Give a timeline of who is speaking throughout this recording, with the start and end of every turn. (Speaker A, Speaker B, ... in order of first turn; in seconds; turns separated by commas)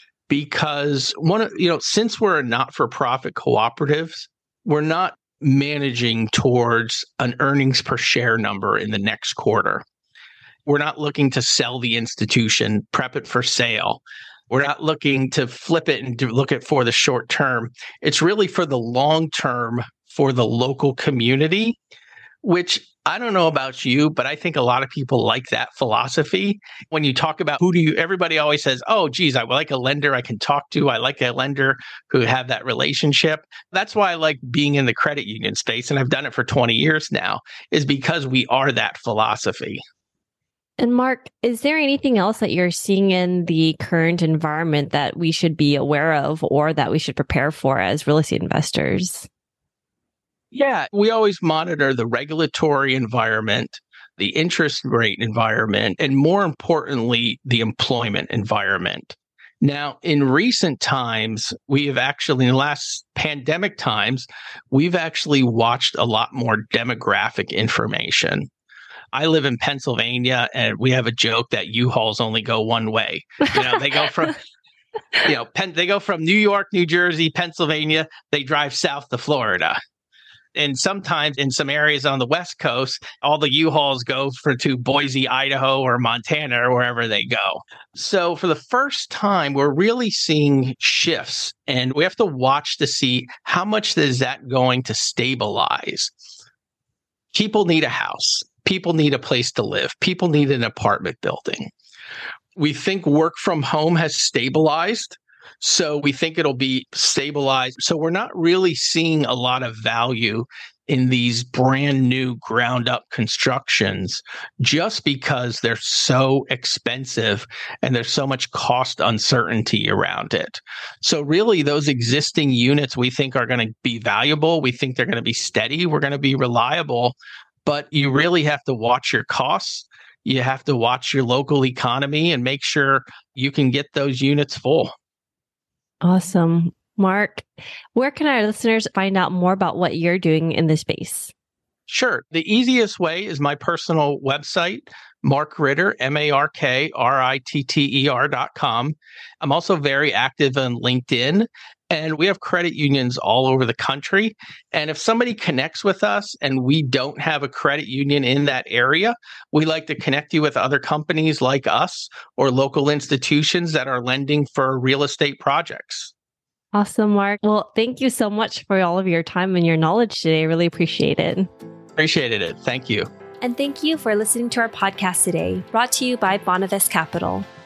Speaker A: 0.3-9.8, Speaker A: 10.7-21.8, Speaker A: 22.4-39.8, Speaker B: 40.8-49.3, Speaker A: 50.5-68.5, Speaker A: 69.1-74.4, Speaker A: 75.2-79.8, Speaker A: 80.5-96.2, Speaker A: 97.3-101.7, Speaker A: 102.5-134.9, Speaker B: 136.0-141.3, Speaker A: 141.9-166.1, Speaker B: 166.7-171.5, Speaker A: 172.0-173.1, Speaker B: 173.4-177.4